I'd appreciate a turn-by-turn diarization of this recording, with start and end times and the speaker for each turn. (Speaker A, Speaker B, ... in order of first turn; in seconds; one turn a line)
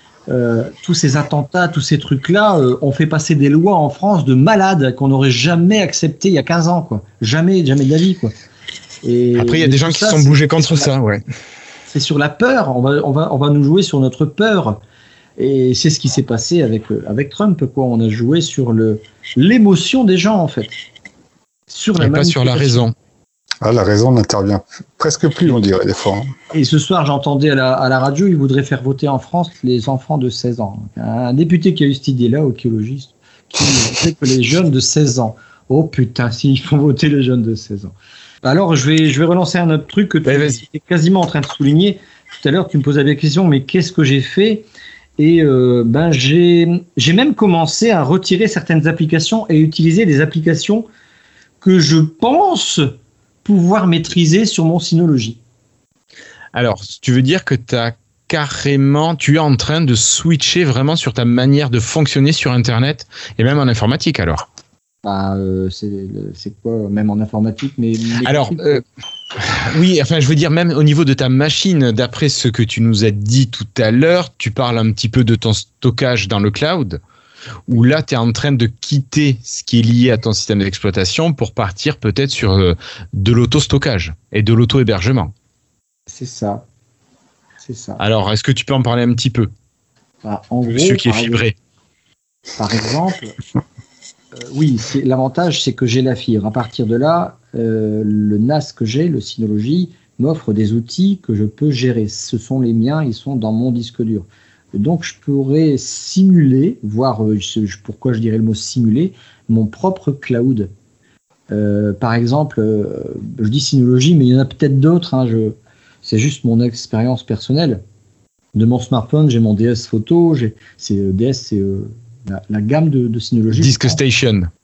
Speaker A: 0.3-8.3
Speaker A: 9.0-10.9
Speaker B: 9.3-11.2
Speaker A: 11.9-14.8
Speaker A: 15.4-20.7
Speaker A: 21.7-22.8
Speaker B: 22.0-22.9
Speaker C: 23.6-26.3
Speaker A: 26.5-44.6
Speaker B: 40.2-40.6
Speaker A: 45.2-50.9
Speaker A: 51.6-52.9
Speaker A: 53.4-55.4
Speaker B: 56.5-64.5
Speaker A: 65.0-68.8
Speaker B: 68.2-68.8
Speaker B: 69.4-77.0
Speaker B: 77.7-85.3
Speaker A: 86.1-86.7
Speaker A: 87.6-88.0
Speaker B: 88.0-89.5
Speaker A: 90.2-91.4
Speaker B: 90.7-91.5
Speaker A: 92.6-93.3
Speaker A: 94.3-110.7
Speaker A: 111.5-117.8
Speaker A: 118.5-124.0
Speaker B: 123.5-124.5